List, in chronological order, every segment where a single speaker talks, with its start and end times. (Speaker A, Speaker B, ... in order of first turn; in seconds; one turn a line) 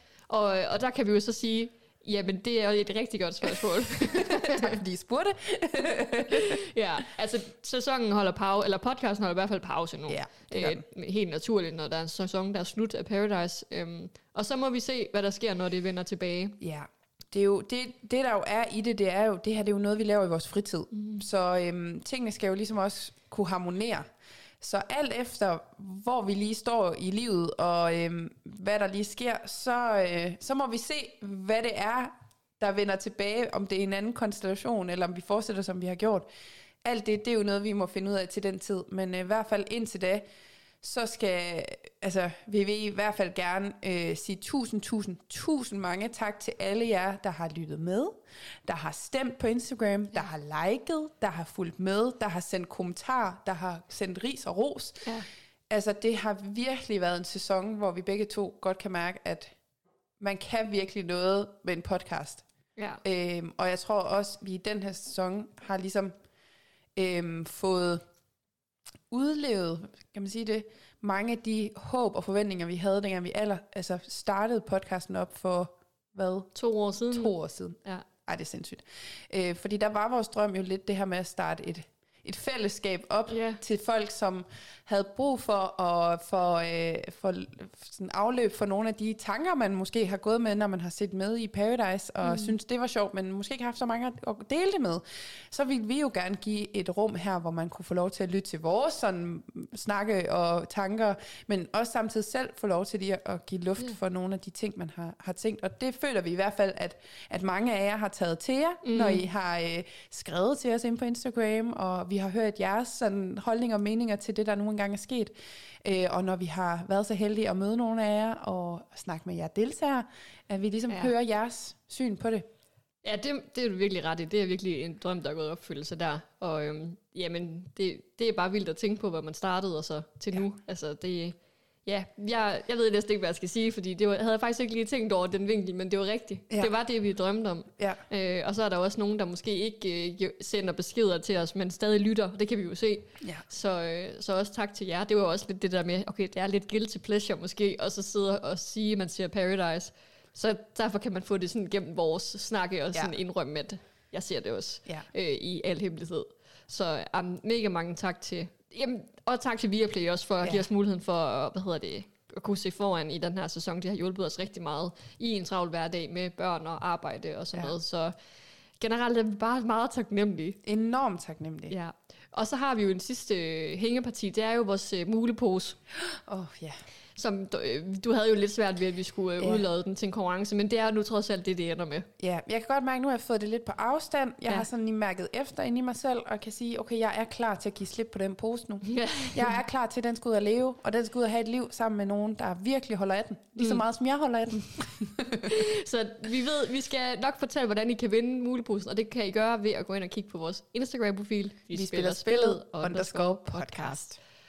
Speaker A: 0.3-4.8
Speaker B: 3.5-6.6
Speaker A: 6.3-16.6
Speaker B: 10.1-10.8
Speaker B: 16.6-24.1
Speaker A: 20.9-21.2
Speaker B: 24.6-36.3
Speaker B: 36.8-40.3
Speaker B: 40.8-55.1
Speaker B: 55.7-59.5
Speaker B: 60.2-62.4
Speaker A: 62.8-63.0
Speaker B: 63.0-66.1
Speaker B: 67.0-68.0
Speaker B: 69.1-76.5
Speaker A: 76.5-78.1
Speaker B: 77.1-122.5
Speaker A: 83.3-83.6
Speaker A: 92.2-92.5
Speaker A: 108.8-109.2
Speaker A: 123.0-168.2
Speaker A: 168.8-170.6
Speaker B: 170.7-171.8
Speaker A: 171.7-175.8
Speaker B: 176.0-176.8
Speaker A: 177.2-182.1
Speaker B: 179.4-179.7
Speaker B: 182.2-195.6
Speaker A: 188.8-189.6
Speaker A: 195.5-204.1
Speaker B: 201.7-204.2